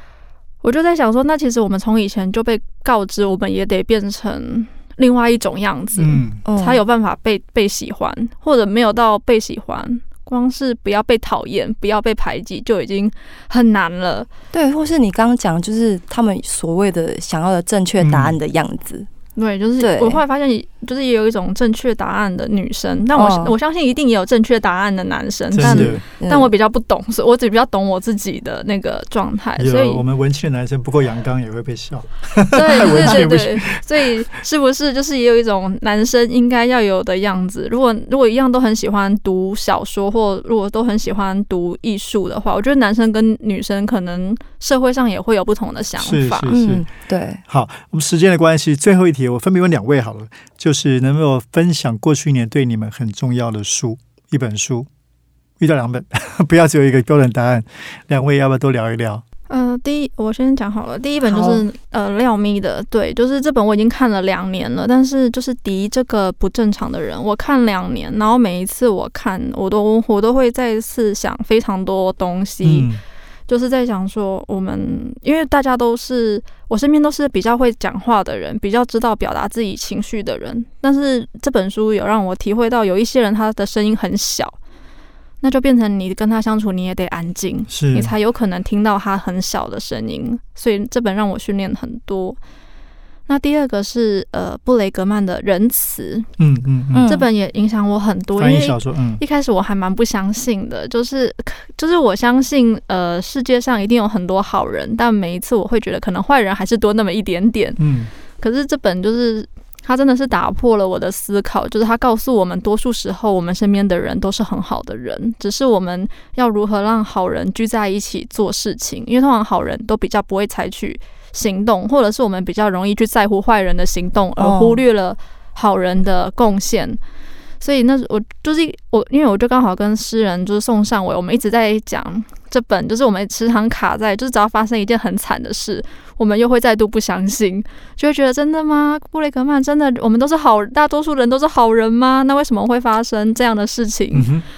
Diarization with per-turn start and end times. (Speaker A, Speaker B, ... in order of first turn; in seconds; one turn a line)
Speaker A: 0.6-14.3
Speaker B: 6.0-6.4
Speaker C: 6.4-6.8
Speaker C: 14.5-19.1
Speaker B: 18.0-18.4
Speaker A: 19.4-30.0
Speaker C: 19.8-20.2
Speaker C: 23.1-23.5
Speaker B: 25.5-26.0
Speaker C: 25.6-26.5
Speaker B: 29.6-33.8
Speaker A: 32.5-46.5
Speaker C: 32.9-33.3
Speaker B: 46.0-46.9
Speaker C: 46.5-47.4
Speaker B: 47.5-54.9
Speaker B: 55.6-59.2
Speaker A: 59.5-72.9
Speaker C: 61.3-61.6
Speaker B: 72.6-73.0
Speaker A: 73.5-84.5
Speaker A: 85.4-92.4
Speaker B: 87.7-88.1
Speaker A: 93.3-96.3
Speaker B: 96.4-97.1
Speaker C: 96.9-97.2
Speaker A: 97.0-107.8
Speaker B: 98.4-99.2
Speaker B: 107.8-108.1
Speaker A: 108.4-127.0
Speaker C: 124.4-124.8
Speaker A: 127.6-144.3
Speaker B: 144.1-144.4